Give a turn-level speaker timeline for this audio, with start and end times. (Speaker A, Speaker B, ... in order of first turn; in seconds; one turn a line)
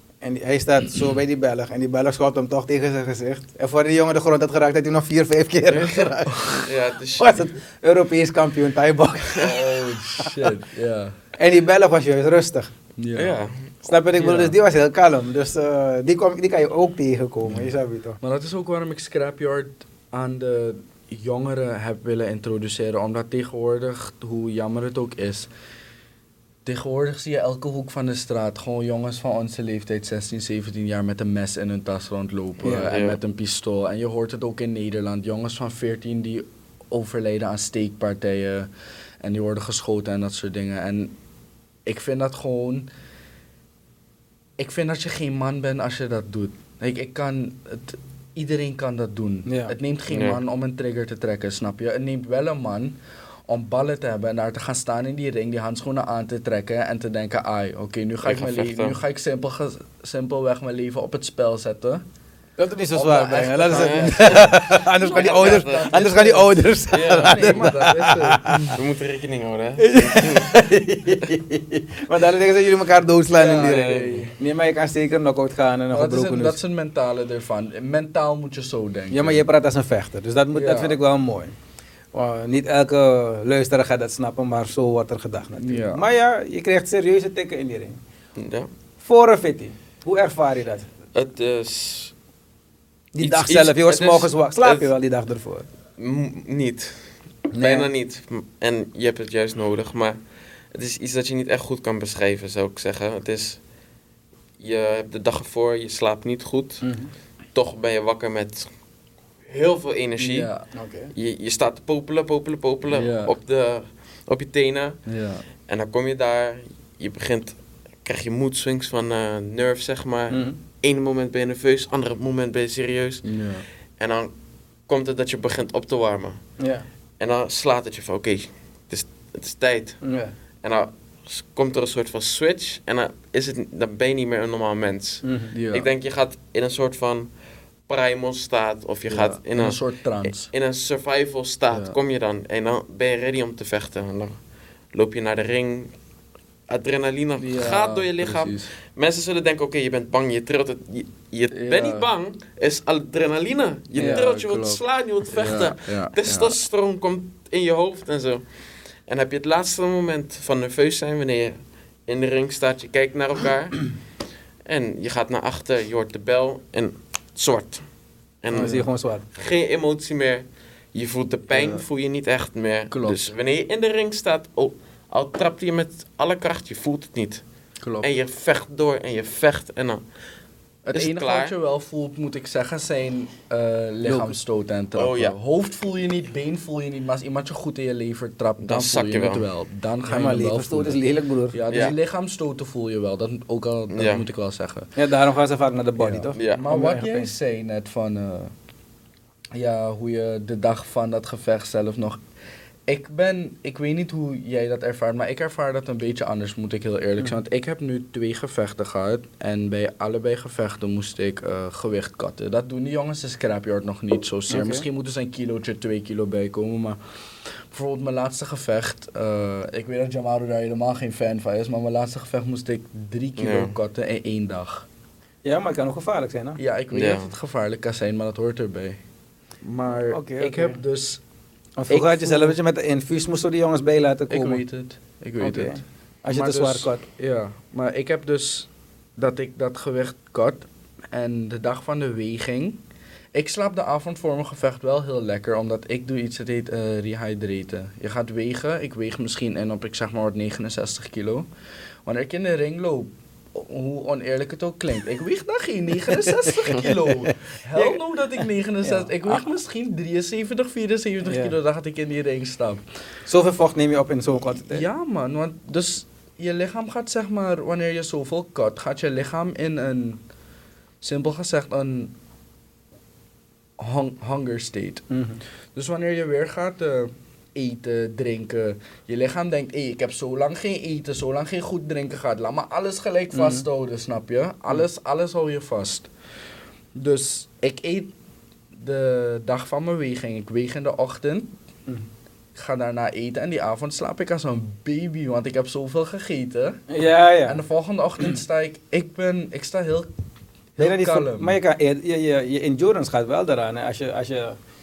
Speaker A: 0.2-6.6
Speaker B: 5.7-7.4
Speaker C: 6.3-6.6
Speaker A: 7.2-9.5
Speaker C: 9.4-11.1
Speaker A: 11.4-12.7
Speaker C: 13.0-13.4
Speaker B: 13.1-13.9
Speaker A: 13.8-18.2
Speaker C: 14.1-14.5
Speaker C: 18.2-25.5
Speaker C: 26.6-38.7
Speaker B: 32.6-33.2
Speaker C: 39.2-41.1
Speaker C: 41.9-42.9
Speaker C: 44.6-62.0
Speaker A: 49.5-49.7
Speaker B: 50.1-50.4
Speaker B: 58.2-59.0
Speaker A: 62.6-68.7
Speaker C: 62.9-68.8
Speaker B: 63.7-66.0
Speaker B: 66.9-67.8
Speaker B: 68.7-70.5
Speaker A: 69.8-76.6
Speaker C: 73.3-74.3
Speaker B: 73.6-74.3
Speaker C: 75.9-79.4
Speaker A: 79.1-81.5
Speaker C: 80.5-81.0
Speaker A: 82.1-88.0
Speaker C: 85.6-86.0
Speaker B: 88.3-88.7
Speaker A: 89.0-90.9
Speaker B: 91.1-92.1
Speaker A: 93.1-95.7
Speaker B: 93.2-94.9
Speaker B: 96.0-103.7
Speaker A: 97.5-97.9
Speaker B: 104.6-108.8
Speaker A: 106.8-107.1
Speaker B: 109.5-115.0
Speaker C: 110.2-110.7
Speaker A: 110.7-111.1
Speaker C: 112.9-113.3
Speaker C: 115.0-115.4
Speaker B: 115.7-144.4
Speaker A: 120.3-120.6
Speaker C: 123.2-123.7
Speaker A: 126.6-126.9
Speaker A: 130.0-130.3
Speaker A: 135.2-135.5
Speaker C: 135.5-135.9
Speaker C: 139.1-140.5
Speaker C: 141.7-141.9
Speaker B: 144.9-145.9
Speaker B: 146.7-177.4
Speaker C: 147.4-148.7
Speaker C: 151.5-152.1
Speaker C: 153.9-156.6
Speaker A: 154.0-154.2
Speaker C: 168.5-168.8
Speaker A: 168.5-169.2
Speaker C: 171.5-171.8
Speaker C: 172.9-173.3
Speaker C: 177.8-178.1
Speaker B: 178.0-180.4
Speaker C: 180.8-194.9
Speaker B: 180.9-181.5
Speaker A: 184.0-184.4
Speaker B: 184.9-185.3
Speaker B: 188.6-189.5
Speaker A: 190.1-191.6
Speaker B: 193.9-194.2
Speaker A: 194.9-197.3
Speaker C: 196.0-198.5
Speaker B: 196.3-196.6
Speaker C: 199.5-202.2
Speaker C: 202.9-224.8
Speaker A: 214.5-214.8
Speaker B: 223.4-223.7
Speaker A: 225.4-226.6
Speaker C: 226.6-229.0
Speaker B: 226.9-227.3
Speaker C: 229.6-231.2
Speaker A: 230.1-230.8
Speaker A: 231.8-234.6
Speaker C: 231.9-232.6
Speaker C: 234.3-242.8
Speaker A: 235.4-237.0
Speaker C: 243.3-251.4
Speaker C: 252.0-262.8
Speaker A: 256.5-256.8
Speaker A: 257.7-258.0
Speaker A: 258.8-259.4
Speaker A: 261.2-261.5
Speaker A: 263.3-264.8
Speaker C: 264.7-270.2
Speaker C: 271.0-272.1
Speaker C: 273.8-275.1
Speaker A: 275.1-275.4
Speaker C: 275.7-286.1
Speaker A: 283.3-283.6
Speaker C: 286.9-288.1
Speaker C: 288.7-291.5
Speaker C: 292.5-296.8
Speaker A: 296.9-297.6
Speaker C: 297.4-300.1
Speaker C: 300.8-301.5
Speaker A: 300.8-304.6